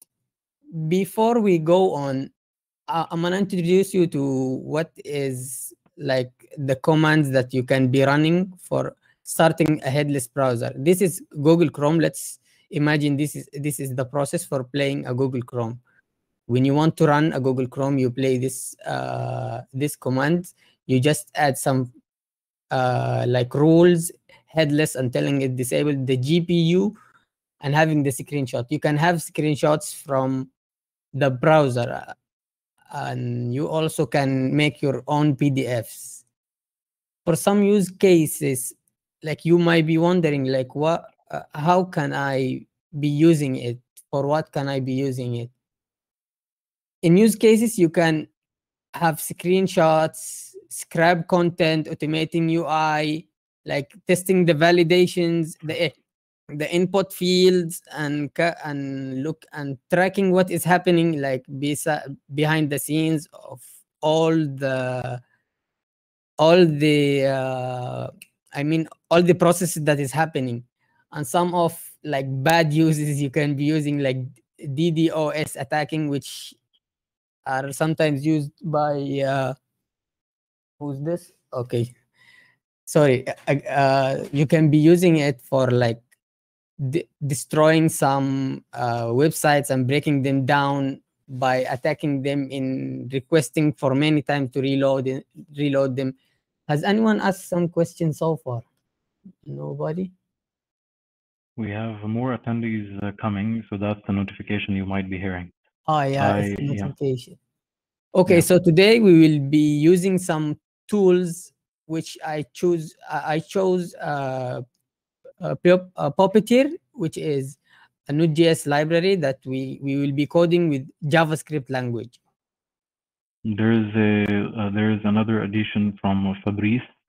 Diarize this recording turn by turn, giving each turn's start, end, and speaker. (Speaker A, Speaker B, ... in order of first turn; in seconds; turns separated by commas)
Speaker A: 0.7-2.3, Speaker A: 2.9-15.8, Speaker A: 16.5-21.9, Speaker A: 22.7-26.9, Speaker A: 27.6-30.5, Speaker A: 31.1-32.1, Speaker A: 32.9-36.2, Speaker A: 37.2-45.5, Speaker A: 47.0-48.3, Speaker A: 48.9-56.0, Speaker A: 56.5-65.2, Speaker A: 66.4-76.6, Speaker A: 77.4-79.5, Speaker A: 80.8-81.9, Speaker A: 82.9-86.0, Speaker A: 86.8-96.1, Speaker A: 96.7-98.6, Speaker A: 99.4-100.1, Speaker B: 101.6-105.5, Speaker A: 105.9-107.4, Speaker B: 106.2-106.9, Speaker A: 108.1-114.6, Speaker A: 115.4-122.2, Speaker B: 123.4-126.9